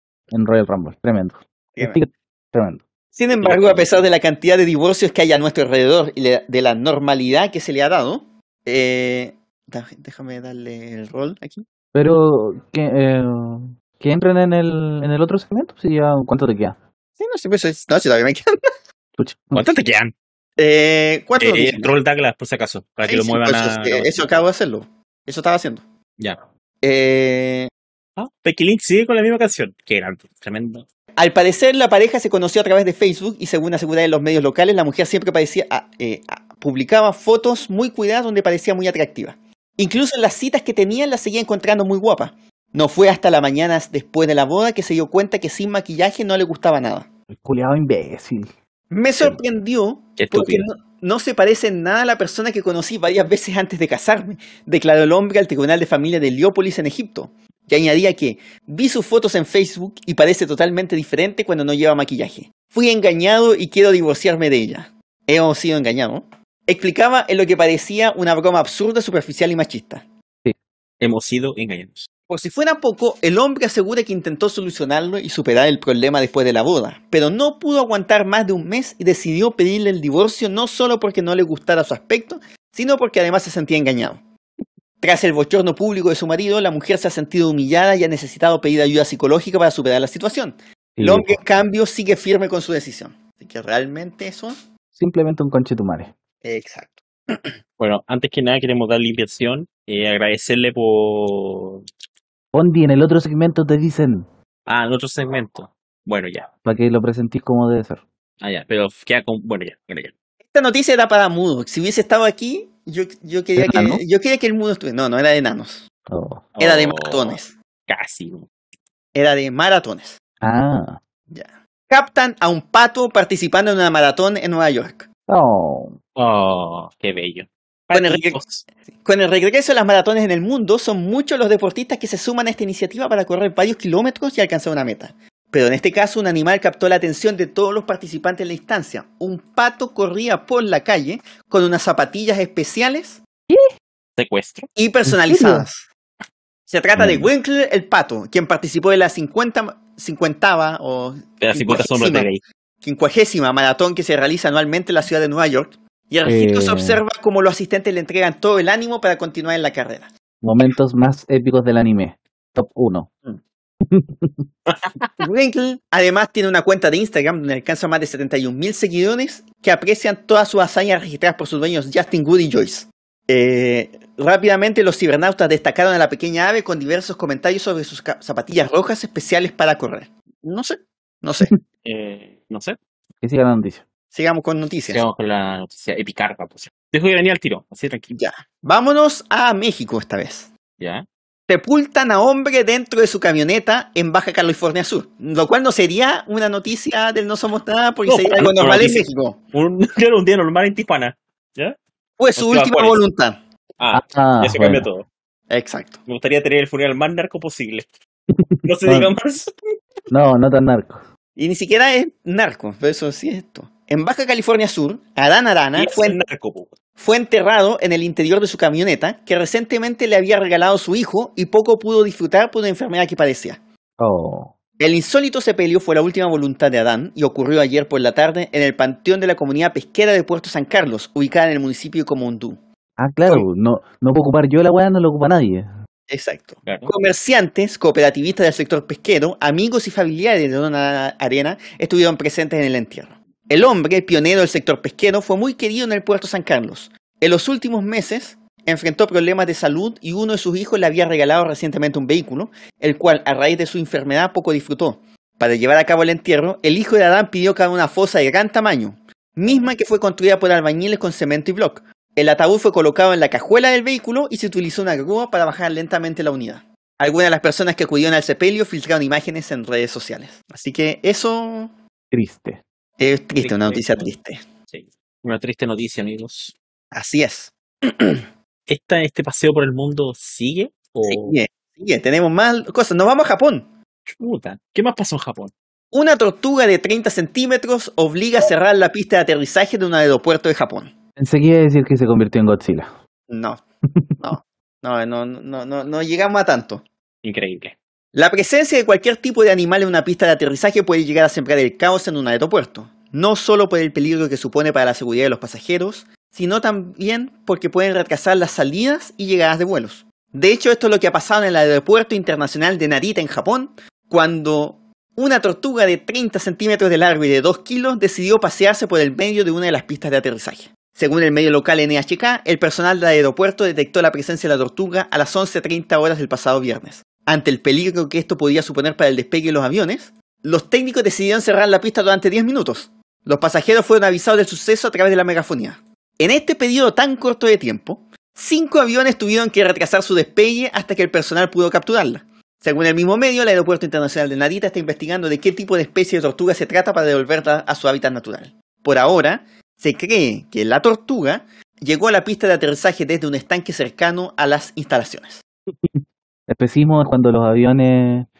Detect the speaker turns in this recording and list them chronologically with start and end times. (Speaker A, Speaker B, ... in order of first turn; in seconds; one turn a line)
Speaker A: 0.3-2.8
Speaker B: 1.7-2.0
Speaker B: 3.1-11.6
Speaker C: 3.4-4.0
Speaker A: 11.9-16.8
Speaker B: 17.2-18.5
Speaker A: 19.2-19.6
Speaker C: 19.5-20.1
Speaker B: 20.6-21.9
Speaker C: 21.4-24.4
Speaker B: 23.0-25.8
Speaker B: 26.8-27.7
Speaker C: 28.2-30.8
Speaker B: 31.2-47.1
Speaker A: 47.3-48.5
Speaker B: 48.9-70.0
Speaker C: 50.2-50.6
Speaker C: 71.0-72.1
Speaker B: 72.3-84.2
Speaker B: 85.0-94.6
Speaker A: 91.0-91.4
Speaker A: 94.9-96.1
Speaker B: 96.4-97.5
Speaker C: 97.8-101.8
Speaker A: 102.5-104.2
Speaker C: 104.7-106.5
Speaker A: 106.6-108.0
Speaker C: 108.4-110.1
Speaker B: 110.5-115.8
Speaker A: 113.6-114.0
Speaker A: 116.1-116.4
Speaker C: 116.5-117.4
Speaker B: 116.6-117.5
Speaker C: 117.9-118.5
Speaker B: 119.1-120.2
Speaker A: 120.4-121.0
Speaker B: 121.3-125.0
Speaker A: 125.3-126.0
Speaker C: 126.2-128.6
Speaker B: 127.9-128.4
Speaker B: 129.0-143.2
Speaker C: 144.2-144.7
Speaker B: 144.8-145.9
Speaker A: 145.1-145.7
Speaker B: 146.7-152.3
Speaker A: 146.9-147.3
Speaker C: 151.4-152.4
Speaker B: 152.8-160.1
Speaker A: 156.2-157.0
Speaker A: 160.4-163.1
Speaker A: 163.8-164.4
Speaker C: 164.7-165.2
Speaker B: 165.2-181.5
Speaker C: 181.8-182.8
Speaker A: 183.2-183.8
Speaker B: 184.1-185.0
Speaker C: 184.9-188.1
Speaker B: 188.1-190.5
Speaker C: 190.8-191.0
Speaker B: 191.5-199.4
Speaker C: 198.1-201.8
Speaker B: 202.2-203.4
Speaker C: 202.3-203.0
Speaker C: 203.8-205.1
Speaker A: 203.9-204.8
Speaker B: 205.5-206.0
Speaker C: 206.1-207.8
Speaker A: 208.3-209.1
Speaker C: 208.6-209.5
Speaker A: 210.1-211.0
Speaker B: 211.3-216.2
Speaker C: 215.8-216.7
Speaker B: 217.0-223.6
Speaker A: 224.0-224.5
Speaker B: 224.8-232.6
Speaker A: 233.0-235.7
Speaker B: 236.1-271.7
Speaker C: 236.6-236.9
Speaker A: 272.1-272.6
Speaker B: 273.0-274.4
Speaker C: 273.4-274.1
Speaker C: 274.7-276.5
Speaker B: 276.9-278.2
Speaker C: 278.7-281.4
Speaker B: 281.1-283.7
Speaker C: 284.1-285.5
Speaker B: 285.9-290.9
Speaker A: 291.2-292.9
Speaker B: 293.3-293.6
Speaker B: 294.2-296.8
Speaker C: 297.2-297.8
Speaker B: 298.1-355.4
Speaker A: 355.9-358.3